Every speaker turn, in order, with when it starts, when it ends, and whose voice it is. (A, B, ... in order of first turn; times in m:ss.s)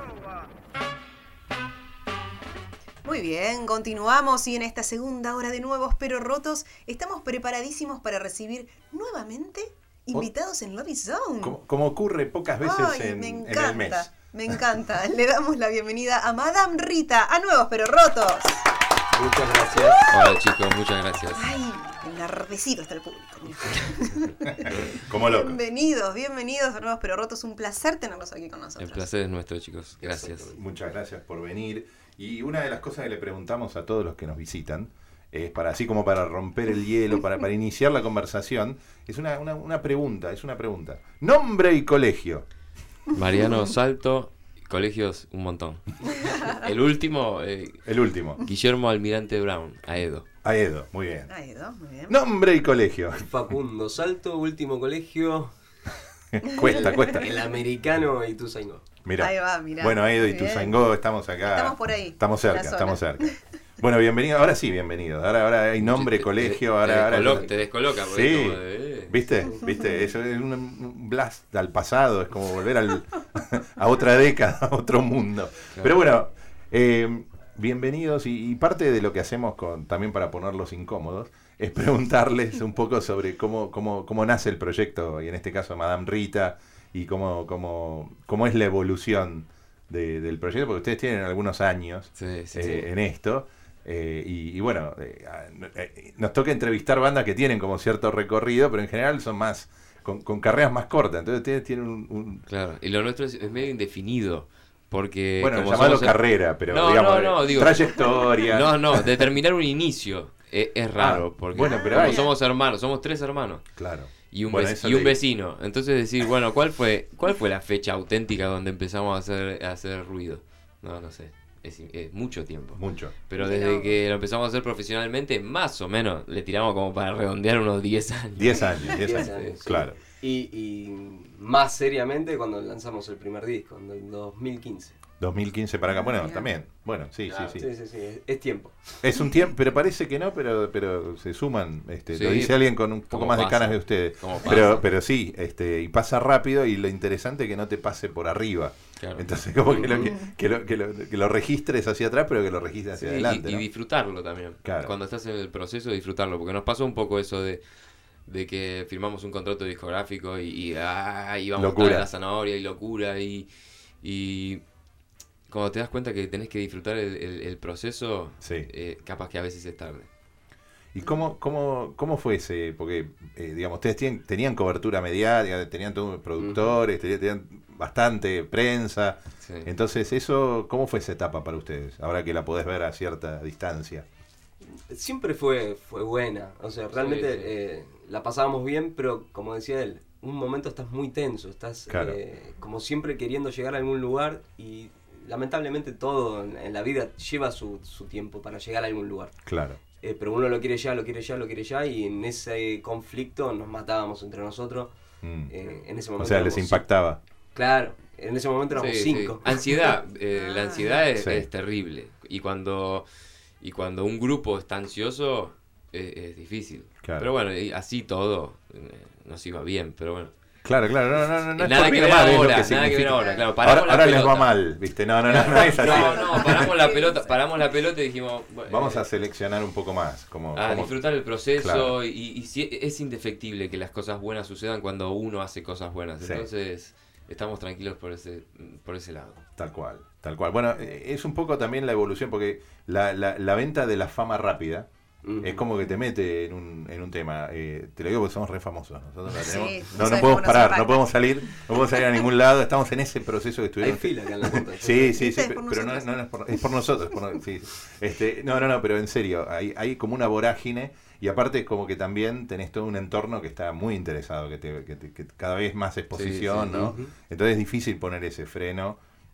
0:03.0-0:11.6 A
0:11.4-0:14.6 B
0:12.6-0:18.6 A
0:19.1-0:20.1 C
0:19.7-0:20.4 A
0:20.1-0:21.4 D
0:21.3-0:29.1 A
0:24.5-0:25.6 B
0:28.8-0:30.6 D
0:30.0-0:42.4 B
0:43.1-0:47.8 D
0:47.8-0:48.4 B
0:48.4-0:50.2 D
0:50.4-0:51.3 B
0:51.3-0:52.2 A
0:52.1-0:53.3 B
0:53.2-0:55.5 C
0:56.3-0:57.3 B
0:56.6-0:58.8 C
0:59.0-1:42.4 B
0:59.2-1:00.8 A
1:01.5-1:03.4 A
1:05.8-1:09.2 D
1:32.1-1:32.9 D
1:42.5-1:53.6 D
1:45.4-1:49.1 B
1:51.0-1:52.3 B
1:51.6-1:52.3 A
1:53.8-1:55.2 B
1:54.3-2:09.6 D
2:02.7-2:03.1 B
2:03.4-2:04.0 A
2:08.4-2:10.0 B
2:08.9-2:15.0 C
2:15.2-2:17.7 B
2:16.0-2:16.5 A
2:17.3-2:17.6 D
2:17.5-2:19.0 C
2:19.0-2:33.6 B
2:22.1-2:24.8 D
2:29.0-2:30.1 D
2:33.0-2:37.6 D
2:34.6-2:34.9 B
2:38.2-2:43.5 D
2:41.6-2:42.1 B
2:44.0-2:44.6 D
2:45.5-2:50.1 D
2:48.4-2:48.7 B
2:50.9-3:04.0 B
2:56.4-2:56.8 C
2:59.4-2:59.7 D
3:04.6-3:19.4 C
3:07.0-3:07.5 D
3:11.9-3:12.2 B
3:19.4-3:19.8 B
3:20.0-3:24.9 C
3:25.2-3:25.5 B
3:25.5-3:26.8 C
3:26.2-3:27.2 B
3:27.5-3:29.6 C
3:28.7-3:33.0 D
3:30.3-3:30.9 A
3:31.2-3:31.5 B
3:33.6-3:40.3 D
3:37.0-3:37.3 B
3:40.6-3:46.6 B
3:41.5-3:44.6 D
3:45.2-3:49.0 D
3:45.6-3:46.2 C
3:45.9-3:47.3 A
3:48.7-3:51.0 B
3:50.5-3:59.4 D
3:51.6-3:52.0 B
3:56.2-3:56.5 B
3:59.6-4:04.9 B
4:05.2-4:05.6 C
4:05.4-4:29.0 B
4:09.3-4:11.1 A
4:13.8-4:15.2 C
4:15.1-4:16.1 A
4:26.1-4:27.0 D
4:26.7-4:27.1 C